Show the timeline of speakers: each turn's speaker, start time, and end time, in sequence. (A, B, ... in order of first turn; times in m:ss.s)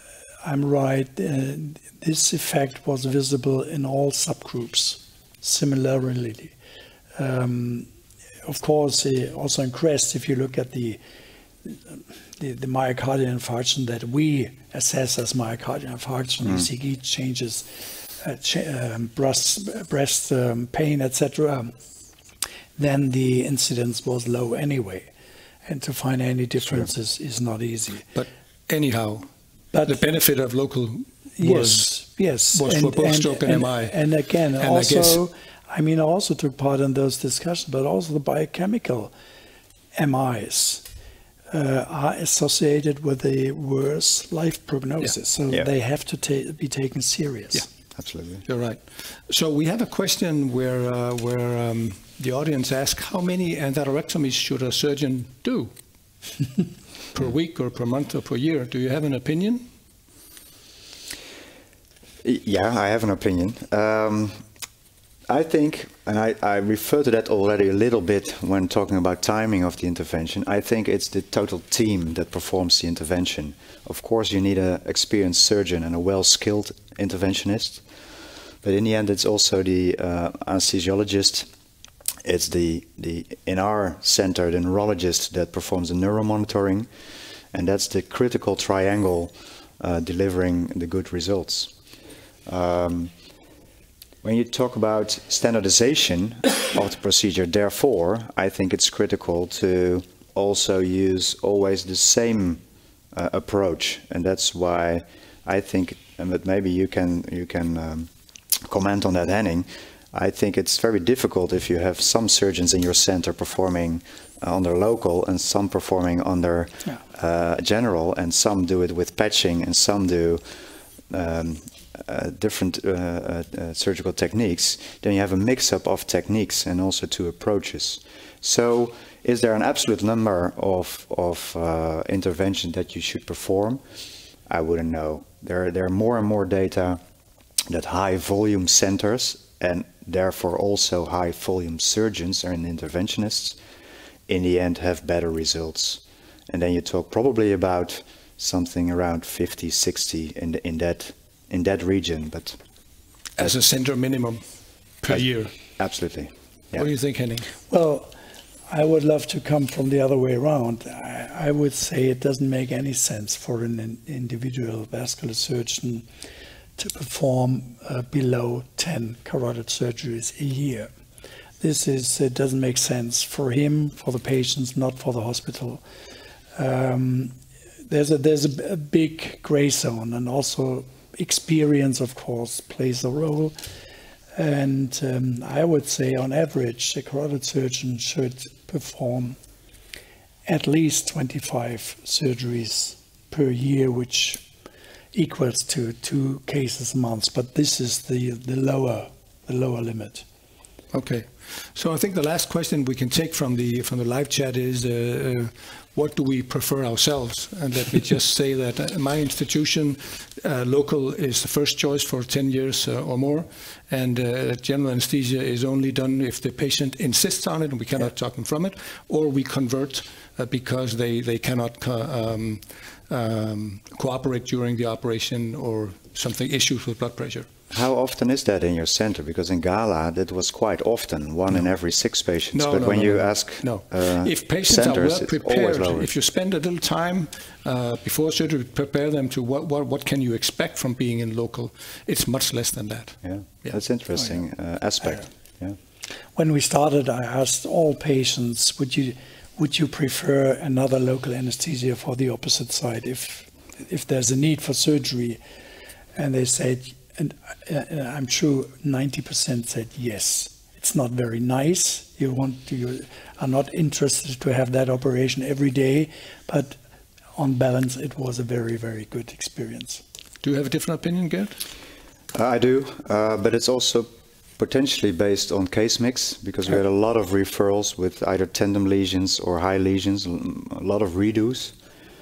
0:00.4-0:06.5 A
0:07.2-0:07.9 A
0:08.4-0:11.0 A
0:11.6-0:21.7 A
0:22.8-0:25.1 A
0:25.7-0:28.1 A
0:28.1-0:29.3 B
0:29.7-0:30.0 A
0:29.8-0:31.9 B
0:31.4-0:39.1 A
0:32.5-0:34.0 B
0:34.6-0:35.2 B
0:40.0-0:40.8 A
0:41.5-0:47.6 A
0:48.0-0:48.4 C
0:48.5-0:55.7 B
0:57.1-0:59.7 B
1:02.2-1:04.4 C
1:05.3-1:17.8 C
1:18.6-1:21.5 C
1:22.2-1:26.9 C
1:27.5-1:31.7 C
1:32.4-1:33.1 C
1:34.2-1:42.6 C
1:43.1-2:00.4 C
2:01.1-2:13.8 C
2:14.5-2:17.0 C
2:17.7-2:23.6 C
2:24.3-2:32.6 C
2:33.4-2:34.4 B
2:35.0-2:35.5 B
2:35.8-2:36.8 C
2:36.7-2:37.5 B
2:37.7-2:38.1 A
2:38.7-2:46.1 A
2:46.8-2:50.9 A
2:51.6-2:55.8 A
2:56.6-2:57.3 A
2:57.9-3:03.6 A
3:04.4-3:09.4 A
3:10.5-3:14.4 A
3:15.1-3:20.2 A
3:20.9-3:47.5 B
3:47.7-3:56.1 C
3:52.5-4:03.8 B
4:03.2-4:05.8 C
4:06.4-4:15.4 A
4:16.2-4:26.8 A
4:27.4-4:30.0 A
4:30.4-4:31.6 B
4:32.3-4:34.1 C
4:34.6-4:41.7 C